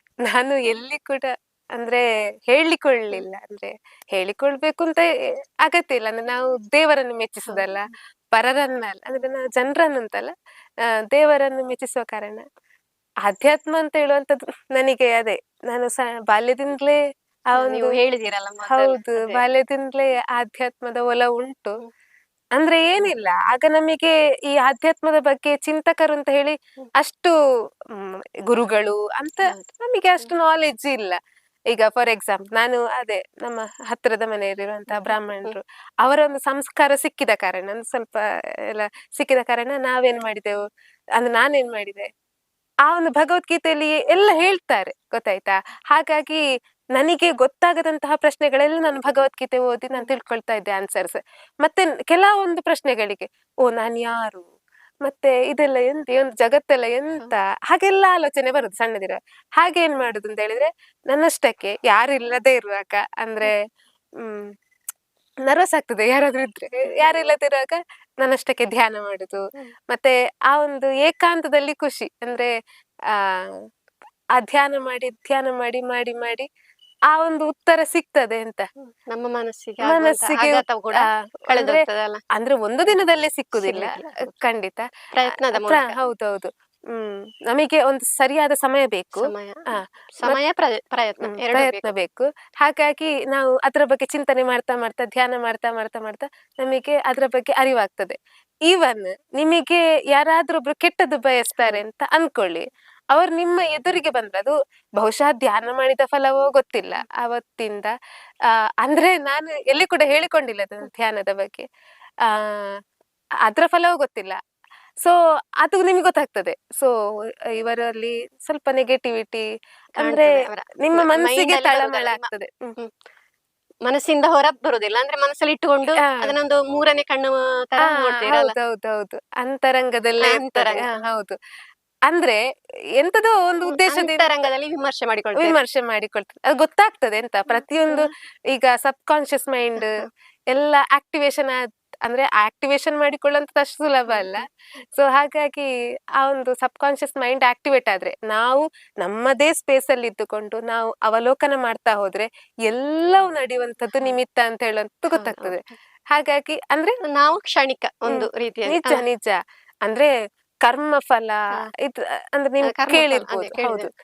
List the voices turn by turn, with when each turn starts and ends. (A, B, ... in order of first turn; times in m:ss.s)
0:00.3-0:05.1 A
0:05.6-0:10.3 A
0:11.1-0:12.4 A
0:13.2-0:17.0 A
0:17.5-0:18.0 A
0:17.6-0:19.4 B
0:18.7-0:21.8 A
0:22.6-0:27.3 A
0:28.0-0:31.2 A
0:31.7-0:40.6 A
0:34.9-0:35.6 B
0:41.2-0:42.1 A
0:42.9-0:46.4 A
0:47.0-0:54.5 A
0:55.0-1:03.6 A
1:04.2-1:04.5 A
1:05.5-1:12.5 A
1:13.1-1:13.6 A
1:14.4-1:16.5 A
1:17.1-1:18.7 A
1:19.1-1:22.2 B
1:19.8-1:21.8 A
1:22.3-1:30.4 A
1:23.6-1:24.4 B
1:25.1-1:26.0 B
1:29.2-1:31.9 B
1:31.2-1:38.2 A
1:38.7-1:47.9 A
1:48.5-1:51.7 A
1:52.2-1:52.8 A
1:53.4-1:54.4 A
1:55.0-1:56.9 A
1:57.5-1:59.4 A
2:00.0-2:02.9 B
2:00.0-2:02.8 A
2:03.8-2:08.5 B
2:06.0-2:06.3 A
2:07.8-2:11.4 A
2:10.2-2:10.9 B
2:12.1-2:12.4 A
2:13.0-2:14.2 A
2:13.7-2:15.6 B
2:15.4-2:24.4 A
2:19.8-2:20.1 B
2:24.1-2:24.4 B
2:25.0-2:37.0 A
2:35.1-2:35.5 B
2:37.1-2:39.0 B
2:38.1-2:40.1 A
2:40.6-2:43.9 A
2:42.7-2:43.9 B